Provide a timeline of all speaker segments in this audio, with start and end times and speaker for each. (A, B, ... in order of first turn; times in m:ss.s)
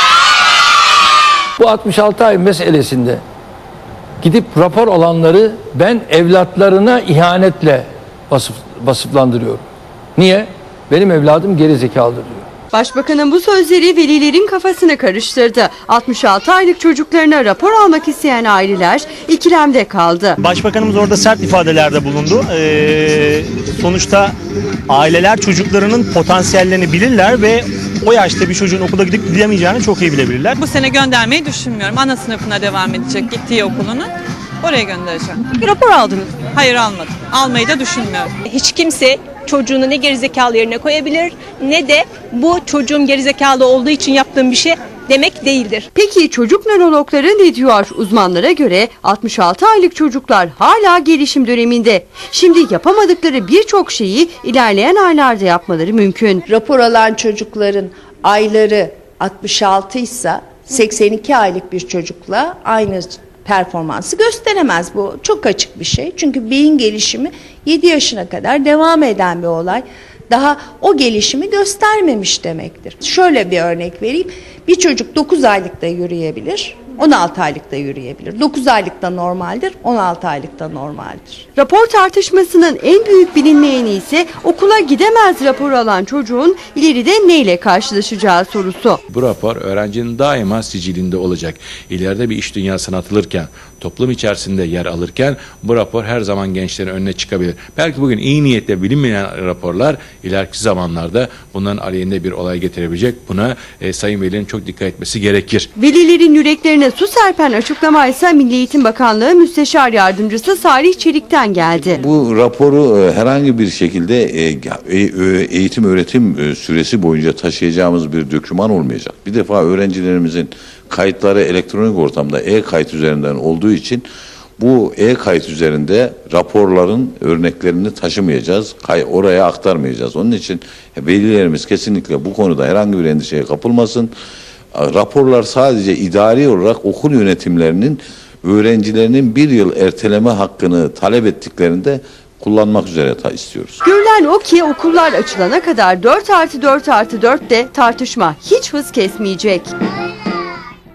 0:01.6-0:03.2 A
0:04.2-0:09.6 A
0:10.1-0:12.4 A
0:12.7-0:20.4 B
0:20.4-0:24.3 C
0:24.9-0:30.6 C
0:30.6-0:38.3 D
0:38.4-0:45.9 E
0:45.9-0:56.4 B
0:56.5-1:21.4 F
1:21.5-1:29.0 B
1:29.1-1:45.7 G
1:45.8-1:52.0 B
1:52.0-2:04.0 H
2:04.6-2:14.1 H
2:14.7-2:23.8 H
2:23.8-2:29.7 B